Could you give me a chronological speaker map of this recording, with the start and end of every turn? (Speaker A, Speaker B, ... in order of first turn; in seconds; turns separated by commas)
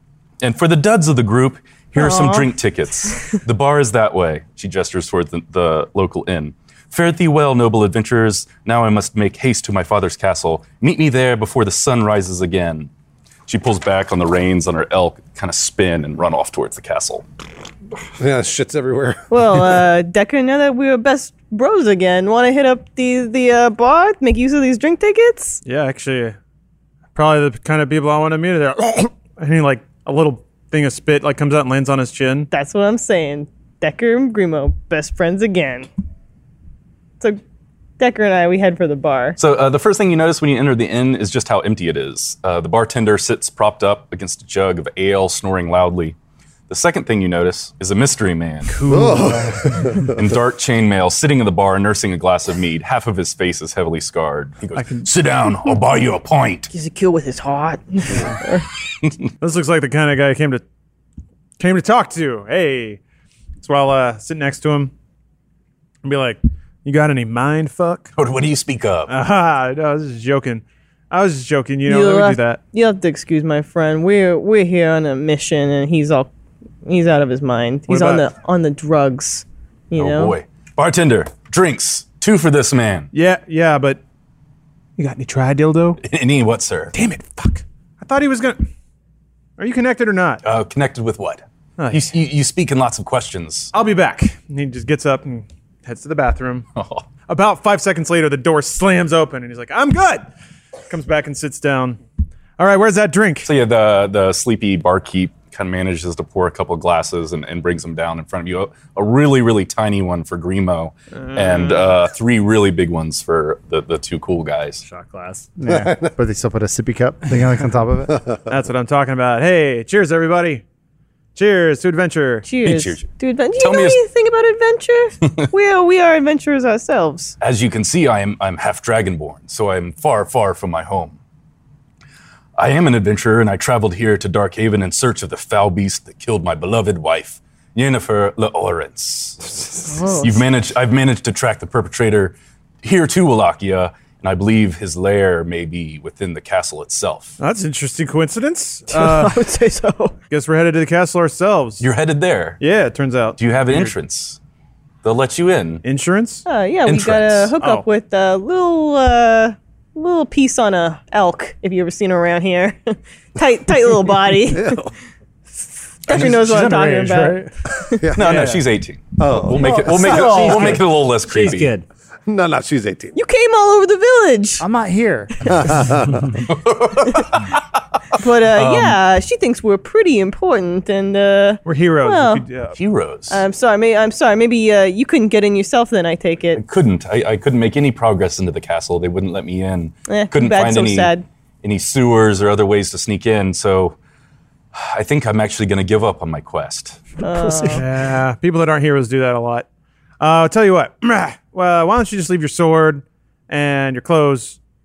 Speaker A: 0.4-12.9, Speaker B: 2.0-2.5, Speaker A: 13.5-17.2, Speaker C: 18.2-19.2, Speaker B: 19.3-25.6, Speaker D: 25.6-26.4, Speaker D: 27.1-32.5, Speaker B: 32.5-35.9, Speaker B: 38.0-39.4, Speaker A: 39.4-46.2, Speaker A: 46.7-48.9, Speaker D: 48.7-49.7, Speaker C: 48.9-50.2, Speaker A: 50.0-56.7, Speaker B: 56.7-58.7, Speaker A: 59.0-59.3, Speaker D: 59.4-60.6, Speaker D: 61.6-63.0, Speaker D: 63.6-64.9, Speaker D: 66.0-68.2, Speaker A: 68.2-69.1, Speaker D: 69.1-72.6, Speaker B: 71.9-76.3, Speaker B: 76.8-80.4, Speaker D: 77.9-78.3, Speaker A: 80.0-83.1, Speaker D: 83.1-84.0, Speaker D: 85.0-86.0, Speaker A: 86.0-86.9, Speaker D: 86.9-88.7, Speaker D: 89.6-90.4, Speaker A: 90.4-93.7, Speaker D: 91.8-92.2, Speaker D: 93.7-96.7, Speaker A: 96.8-97.1, Speaker D: 97.3-100.3, Speaker D: 100.9-102.0, Speaker D: 102.6-103.5, Speaker A: 103.4-114.8, Speaker D: 111.2-112.0, Speaker E: 114.8-115.5, Speaker F: 115.6-118.2, Speaker C: 115.7-116.1, Speaker C: 118.2-118.5, Speaker D: 118.5-120.6, Speaker D: 121.3-122.5, Speaker B: 122.4-127.3, Speaker A: 122.6-124.0, Speaker A: 127.4-131.2, Speaker A: 132.6-147.4, Speaker B: 139.9-140.5, Speaker D: 147.4-149.4, Speaker B: 148.9-150.2, Speaker D: 150.3-151.8, Speaker A: 151.8-152.6, Speaker D: 152.6-153.9, Speaker A: 153.4-154.4, Speaker A: 155.0-155.8, Speaker D: 155.8-156.5, Speaker B: 156.5-164.9, Speaker A: 156.9-157.5, Speaker D: 157.6-157.9, Speaker C: 164.5-164.9, Speaker B: 166.1-168.0, Speaker A: 166.1-166.8, Speaker F: 166.4-167.5, Speaker C: 167.9-168.5, Speaker A: 168.2-171.7, Speaker D: 168.2-168.6, Speaker C: 169.2-170.8, Speaker F: 169.6-170.8, Speaker E: 170.3-171.8, Speaker C: 172.3-173.2, Speaker B: 173.2-174.6, Speaker F: 174.6-175.7, Speaker C: 175.5-176.4, Speaker A: 176.5-177.6, Speaker B: 178.1-182.5, Speaker A: 178.6-179.0, Speaker D: 181.7-182.8, Speaker A: 182.7-183.4, Speaker B: 183.3-186.6, Speaker A: 186.6-191.1, Speaker B: 190.1-191.2, Speaker A: 191.6-194.0, Speaker A: 194.7-197.1, Speaker B: 197.2-197.8, Speaker F: 197.2-197.8, Speaker D: 197.7-199.7, Speaker D: 200.2-204.6